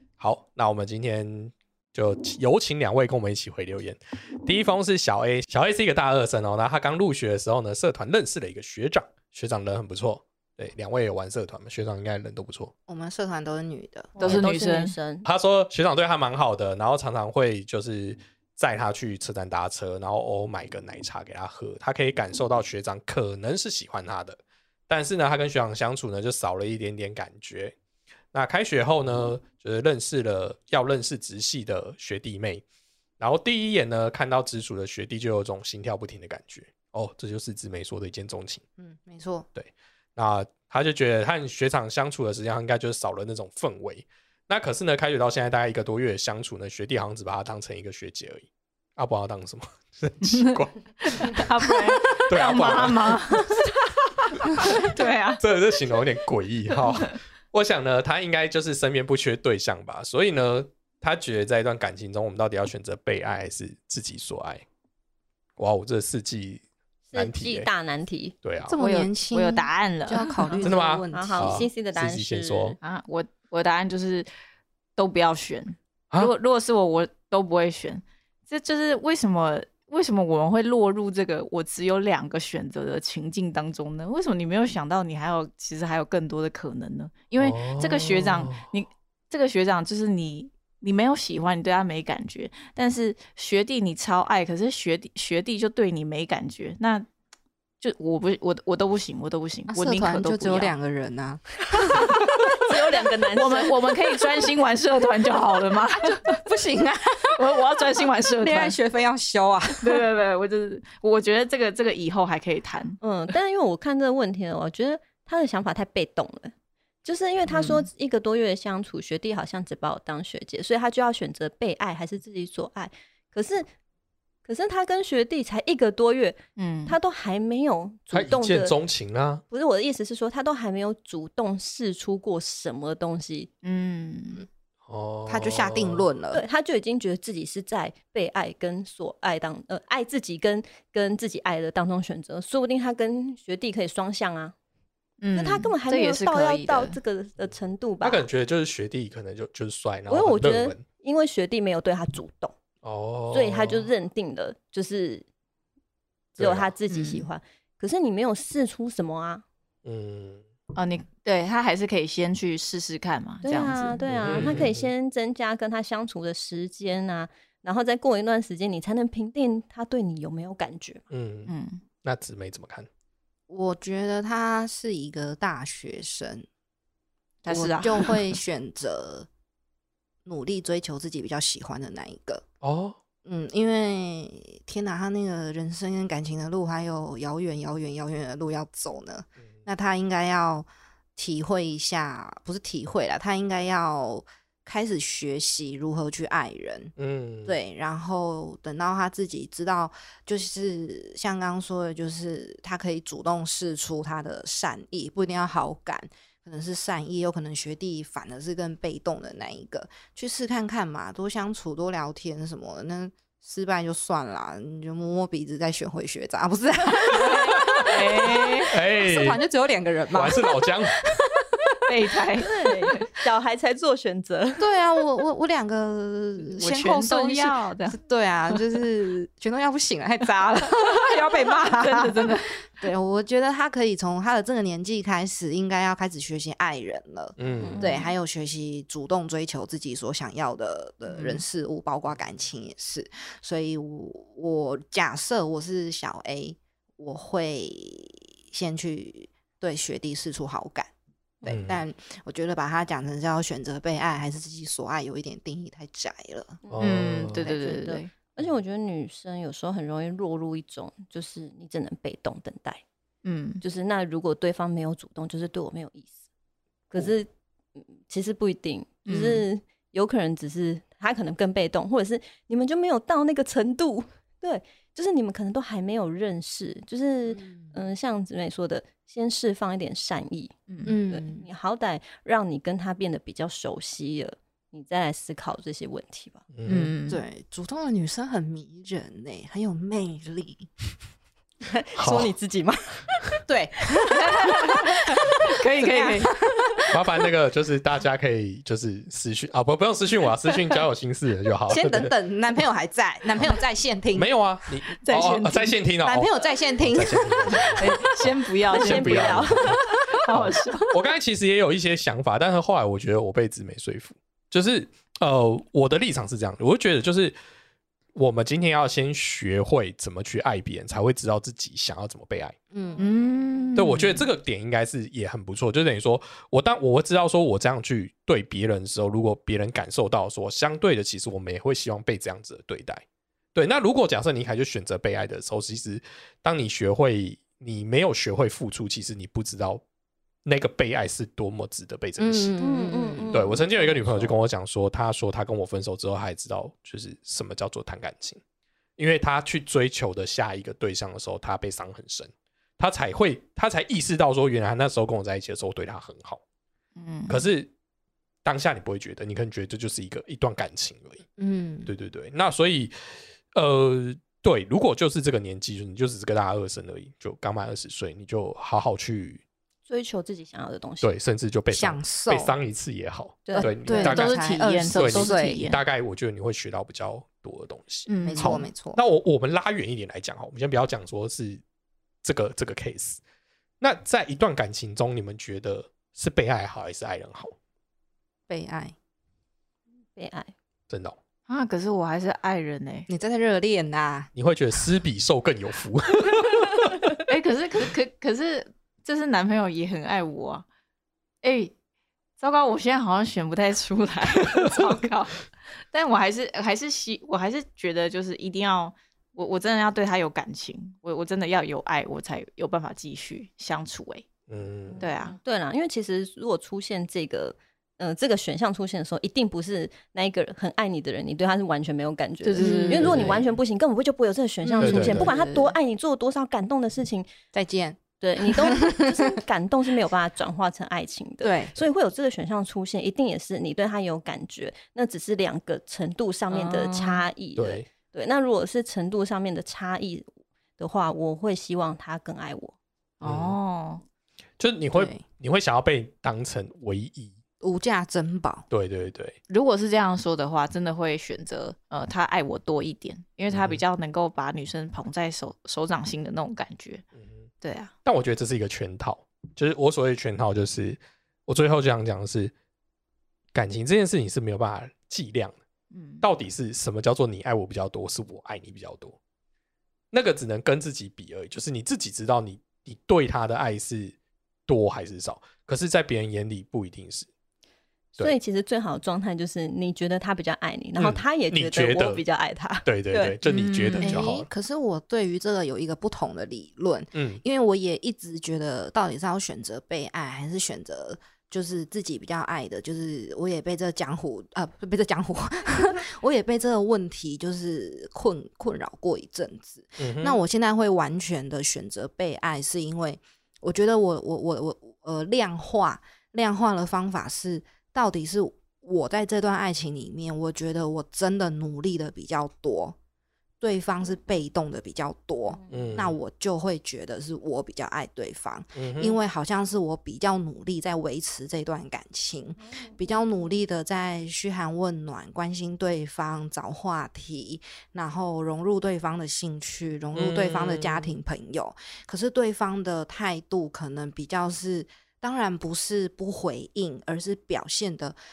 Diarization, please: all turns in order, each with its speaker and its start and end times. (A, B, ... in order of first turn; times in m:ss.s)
0:00.2-0:12.7 A
0:12.9-0:14.2 B
0:14.2-0:15.3 C
0:14.2-0:14.9 D
0:15.2-0:24.4 A
0:24.9-0:27.7 A
0:28.3-0:32.6 A
0:33.2-0:38.6 A
0:38.8-0:39.5 B
0:39.6-0:51.4 A
0:50.2-0:53.6 D
0:52.2-0:53.2 A
0:54.4-0:56.0 D
0:55.4-1:04.6 A
0:56.7-0:57.2 D
1:05.6-1:06.6 A
1:07.1-1:08.3 C
1:07.1-1:07.7 A
1:08.4-1:08.8 A
1:08.7-1:11.6 B
1:08.8-1:10.6 D
1:10.4-1:12.8 C
1:10.6-1:12.8 A
1:12.8-1:14.3 D
1:15.0-1:37.1 D
1:27.4-1:28.6 A
1:37.8-1:40.7 D
1:39.7-1:42.2 B
1:42.6-1:43.8 C
1:43.3-1:46.4 D
1:46.3-1:47.4 B
1:47.3-1:48.8 D
1:48.4-1:50.0 B
1:49.8-1:53.0 D
1:53.0-1:56.5 C
1:57.0-2:03.7 C
1:57.5-1:57.9 D
2:04.4-2:08.8 C
2:06.6-2:07.0 D
2:08.1-2:09.4 A
2:09.5-2:13.5 C
2:13.6-2:14.4 D
2:14.9-2:16.1 A
2:15.2-2:16.4 B
2:16.3-2:24.5 C
2:25.2-2:27.0 D
2:25.3-2:28.2 C
2:28.0-2:30.8 A
2:30.1-2:32.6 C
2:32.8-2:33.9 A
2:33.3-2:35.2 C
2:36.4-2:36.7 A
2:36.4-2:39.4 C
2:36.9-2:37.3 D
2:39.8-2:40.4 A
2:40.7-2:44.5 D
2:43.4-2:51.0 C
2:44.1-2:44.9 A
2:51.1-2:52.9 A
2:51.5-2:51.8 D
2:53.5-2:56.4 B
2:57.4-2:58.4 D
2:57.5-2:59.3 B
3:00.2-3:02.4 B
3:02.6-3:03.0 A
3:03.2-3:16.9 B
3:17.0-3:17.6 A
3:17.4-3:40.6 B
3:37.8-3:38.8 D
3:38.7-3:39.4 A
3:40.1-3:41.0 A
3:41.8-3:43.0 D
3:42.3-3:44.7 C
3:44.6-4:10.9 B
3:46.4-3:48.0 D
3:50.6-3:52.7 D
3:57.4-3:57.8 A
3:57.6-3:58.1 C
4:01.0-4:01.4 D
4:11.4-4:16.6 B
4:11.4-4:11.8 A
4:16.6-4:22.8 C
4:16.7-4:17.5 A
4:16.8-4:18.1 D
4:23.2-4:23.6 D
4:23.6-4:26.1 C
4:26.9-4:46.4 C
4:29.1-4:29.4 D
4:37.3-4:37.7 B
4:40.7-4:41.0 D
4:40.8-4:41.4 B
4:46.5-4:46.9 A
4:46.6-4:47.2 D
4:47.1-4:50.7 B
4:51.7-4:53.2 C
4:51.9-4:52.3 A
4:53.5-4:54.7 B
4:54.2-4:56.3 D
4:55.6-4:56.4 B
4:56.9-5:02.1 A
5:01.7-5:04.3 B
5:04.1-5:17.4 A
5:05.0-5:06.3 D
5:06.0-5:07.7 B
5:07.8-5:11.0 D
5:08.7-5:10.0 C
5:18.1-5:22.6 A
5:22.7-5:23.0 B
5:23.0-5:24.3 D
5:23.7-5:33.0 A
5:33.5-5:39.8 A
5:40.4-5:42.5 A
5:42.2-5:43.5 B
5:42.6-5:44.4 C
5:43.3-5:48.4 A
5:49.0-5:56.4 A
5:57.0-5:57.4 D
5:57.3-5:57.7 A
5:58.4-6:01.2 A
6:01.4-6:01.9 B
6:01.8-6:02.9 A
6:03.5-6:09.4 A
6:09.8-6:11.1 C
6:11.0-6:14.4 A
6:11.7-6:12.5 B
6:13.4-6:13.7 C
6:13.6-6:15.7 B
6:13.8-6:15.8 D
6:15.0-6:21.6 A
6:18.1-6:18.6 D
6:18.2-6:19.0 B
6:22.2-6:23.2 A
6:23.8-6:27.5 A
6:28.5-6:28.9 B
6:30.1-6:30.5 C
6:30.9-6:31.2 A
6:31.5-6:33.1 D
6:33.1-6:34.3 B
6:34.3-6:36.9 A
6:37.3-6:40.6 D
6:41.4-6:41.7 D
6:42.4-6:54.2 D
6:54.5-6:55.0 A
6:54.9-7:07.3 C
6:55.0-6:55.4 D
7:02.4-7:03.2 D
7:02.6-7:03.0 B
7:02.9-7:03.4 A
7:04.6-7:05.7 D
7:04.8-7:05.3 A
7:07.5-7:09.1 B
7:08.2-7:22.8 C
7:11.4-7:11.8 B
7:16.5-7:17.3 D
7:17.6-7:17.8 A
7:23.2-7:24.0 D
7:23.2-7:23.6 A
7:24.6-7:27.4 A
7:24.9-7:25.2 B
7:27.6-7:28.7 B
7:28.7-7:29.4 A
7:29.5-7:37.0 D
7:33.5-7:33.8 A
7:37.2-7:37.5 A
7:37.6-7:37.9 D
7:38.0-7:42.5 A
7:43.5-7:45.6 A
7:45.9-7:46.2 D
7:46.2-7:49.2 A
7:50.1-7:54.1 A
7:54.7-7:57.3 A
7:58.1-8:03.4 C
8:01.0-8:02.2 A
8:02.8-8:04.5 A
8:03.4-8:04.2 D
8:03.9-8:33.0 B
8:07.1-8:07.4 A
8:20.0-8:20.4 A
8:33.6-8:58.2 B
8:35.5-8:36.0 C
8:35.7-8:36.1 A
8:38.7-8:39.2 A
8:42.6-8:43.0 C
8:50.1-8:51.2 A